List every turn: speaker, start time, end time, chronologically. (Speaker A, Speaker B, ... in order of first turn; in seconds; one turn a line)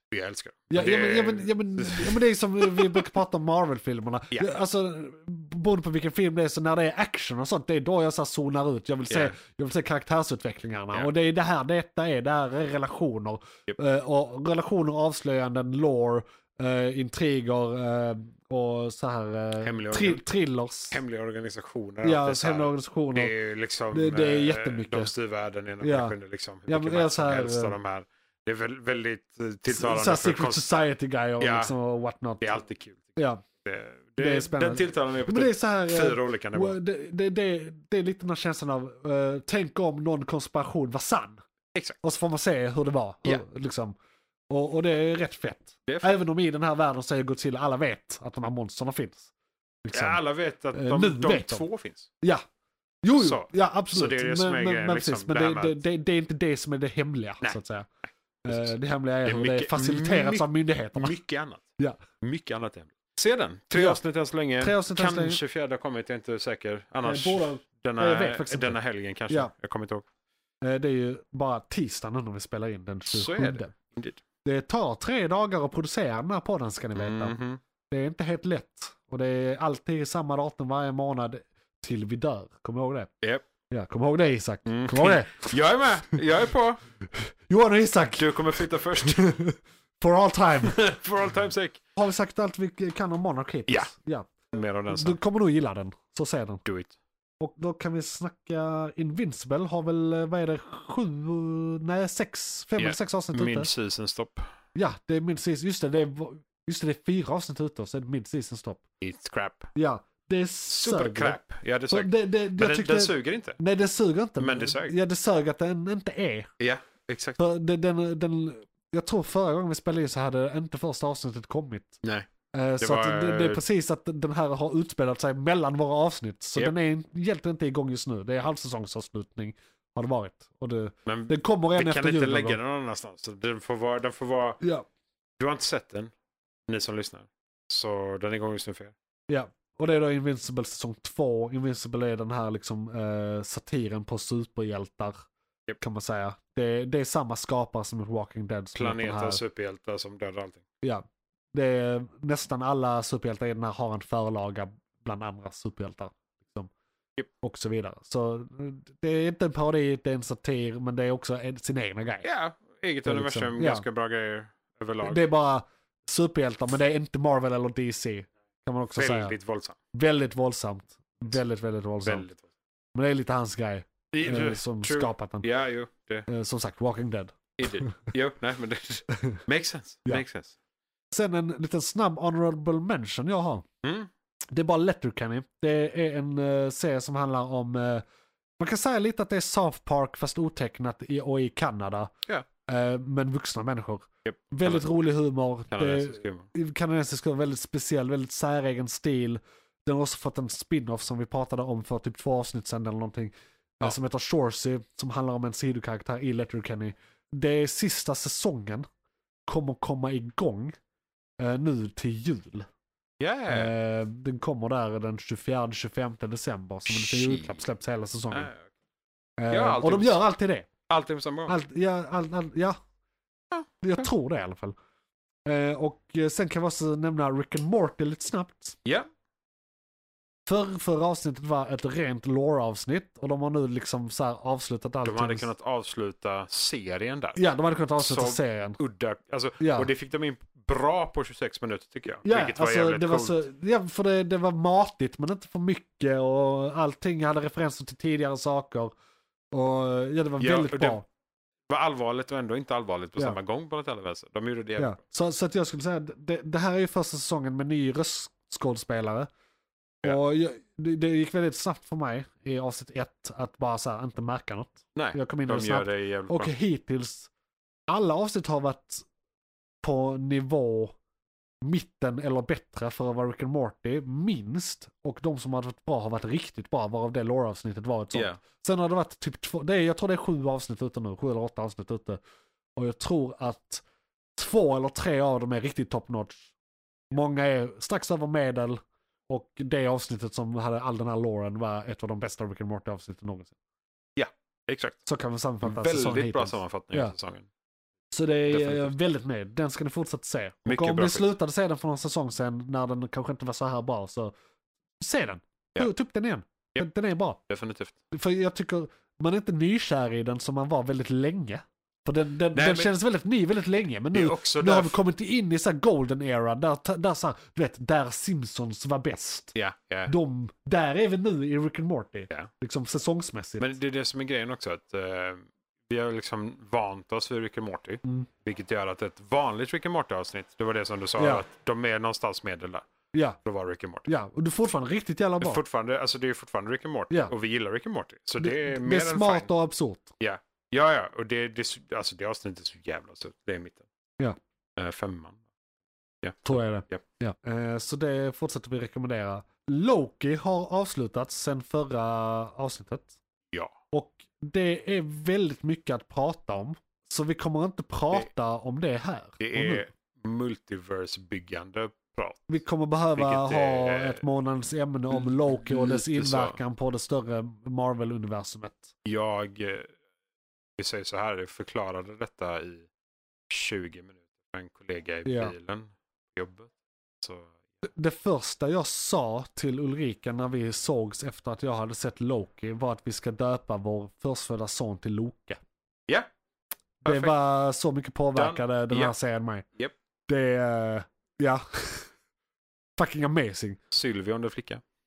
Speaker A: 0.1-3.1
Speaker B: 0.7-21.0
Speaker A: 4.3-4.6
Speaker A: 9.1-9.4
Speaker A: 19.6-20.2
Speaker A: 20.9-30.7
Speaker B: 22.0-23.3
Speaker B: 23.9-25.1
Speaker B: 25.8-26.1
Speaker B: 26.7-27.8
Speaker B: 29.7-32.6
Speaker A: 31.4-31.7
Speaker A: 32.4-36.8
Speaker B: 33.2-33.4
Speaker B: 34.2-41.4
Speaker B: 42.0-44.0
Speaker B: 44.5-49.3
Speaker A: 45.9-46.2
Speaker B: 49.8-51.7
Speaker A: 49.9-52.1
Speaker B: 53.0-57.9
Speaker A: 53.1-55.8
Speaker B: 58.4-61.2
Speaker A: 59.2-61.6
Speaker A: 62.2-70.0
Speaker B: 63.7-64.0
Speaker B: 64.6-65.4
Speaker B: 67.0-68.8
Speaker B: 70.6-73.7
Speaker A: 73.1-74.2
Speaker B: 74.4-77.3
Speaker A: 76.9-77.6
Speaker B: 77.9-83.1
Speaker B: 83.7-86.2
Speaker A: 84.7-86.8
Speaker B: 87.5-90.8
Speaker A: 88.1-89.3
Speaker A: 90.6-91.8
Speaker B: 92.0-94.3
Speaker A: 94.5-95.2
Speaker B: 94.9-96.7
Speaker A: 96.7-96.9
Speaker B: 97.4-103.7
Speaker A: 102.8-104.5
Speaker B: 104.8-108.8
Speaker A: 109.0-109.7
Speaker B: 109.8-116.5
Speaker A: 110.7-113.6
Speaker A: 114.4-115.0
Speaker A: 116.6-117.4
Speaker B: 117.4-122.0
Speaker B: 122.5-132.6
Speaker A: 122.8-123.6
Speaker A: 131.1-134.6
Speaker A: 135.4-136.1
Speaker A: 136.7-138.9
Speaker B: 139.3-145.2
Speaker B: 145.8-149.4
Speaker A: 148.8-150.6
Speaker B: 151.5-156.7
Speaker B: 157.4-162.3
Speaker A: 162.2-165.2
Speaker B: 163.1-163.8
Speaker B: 165.0-169.3
Speaker A: 168.9-169.8
Speaker B: 169.9-172.3
Speaker A: 172.0-172.4
Speaker B: 172.9-175.5
Speaker A: 174.1-176.3
Speaker B: 176.3-178.0
Speaker A: 177.6-180.5
Speaker B: 181.1-183.7
Speaker A: 183.8-184.1
Speaker B: 184.5-188.0
Speaker B: 188.6-192.1
Speaker B: 192.7-208.9
Speaker A: 194.2-194.9
Speaker A: 195.7-196.5
Speaker B: 209.5-210.7
Speaker B: 211.4-212.7
Speaker A: 213.2-213.7
Speaker B: 213.5-218.5
Speaker A: 216.8-217.6
Speaker A: 218.3-218.7
Speaker B: 219.4-220.7
Speaker A: 219.5-220.2
Speaker A: 220.9-221.6
Speaker B: 221.5-222.8
Speaker A: 223.5-224.1
Speaker B: 223.8-224.8
Speaker B: 225.4-228.8
Speaker B: 230.5-235.5
Speaker A: 235.0-237.4
Speaker B: 237.3-238.8
Speaker A: 237.9-243.4
Speaker B: 239.6-239.9
Speaker B: 242.2-248.9
Speaker B: 249.5-251.1
Speaker A: 250.4-251.0
Speaker A: 251.7-255.0
Speaker B: 254.8-259.3
Speaker B: 260.0-267.3
Speaker A: 264.9-266.5
Speaker B: 267.9-269.1
Speaker B: 269.8-270.9
Speaker B: 271.6-282.2
Speaker A: 278.1-278.4
Speaker B: 282.8-283.8
Speaker B: 284.4-286.5
Speaker B: 287.1-293.6
Speaker A: 294.2-295.0
Speaker B: 295.1-297.1
Speaker A: 295.6-297.5
Speaker B: 298.1-304.3
Speaker A: 298.5-298.9
Speaker A: 300.6-301.3
Speaker B: 305.0-307.4
Speaker A: 307.5-307.9
Speaker B: 308.1-319.5
Speaker A: 312.5-312.9
Speaker A: 314.1-315.0
Speaker A: 319.6-320.1
Speaker B: 320.1-323.8
Speaker A: 323.6-332.9
Speaker B: 331.2-331.4
Speaker B: 333.1-333.4
Speaker A: 333.4-334.1
Speaker B: 334.1-335.6
Speaker A: 335.4-339.5
Speaker B: 338.4-340.1
Speaker A: 340.2-343.8
Speaker A: 344.8-345.4
Speaker A: 346.2-347.0
Speaker B: 346.4-353.1
Speaker B: 353.9-359.9
Speaker A: 359.4-362.6
Speaker B: 362.5-368.9
Speaker A: 363.2-364.2
Speaker A: 365.1-366.6
Speaker A: 369.1-369.9
Speaker A: 370.8-372.9
Speaker A: 373.5-376.7
Speaker B: 375.2-375.5
Speaker A: 377.2-377.5
Speaker B: 377.9-385.6
Speaker A: 387.0-387.3
Speaker B: 387.1-389.6
Speaker A: 388.3-389.1
Speaker B: 390.3-392.1
Speaker B: 393.0-393.8
Speaker A: 393.9-394.8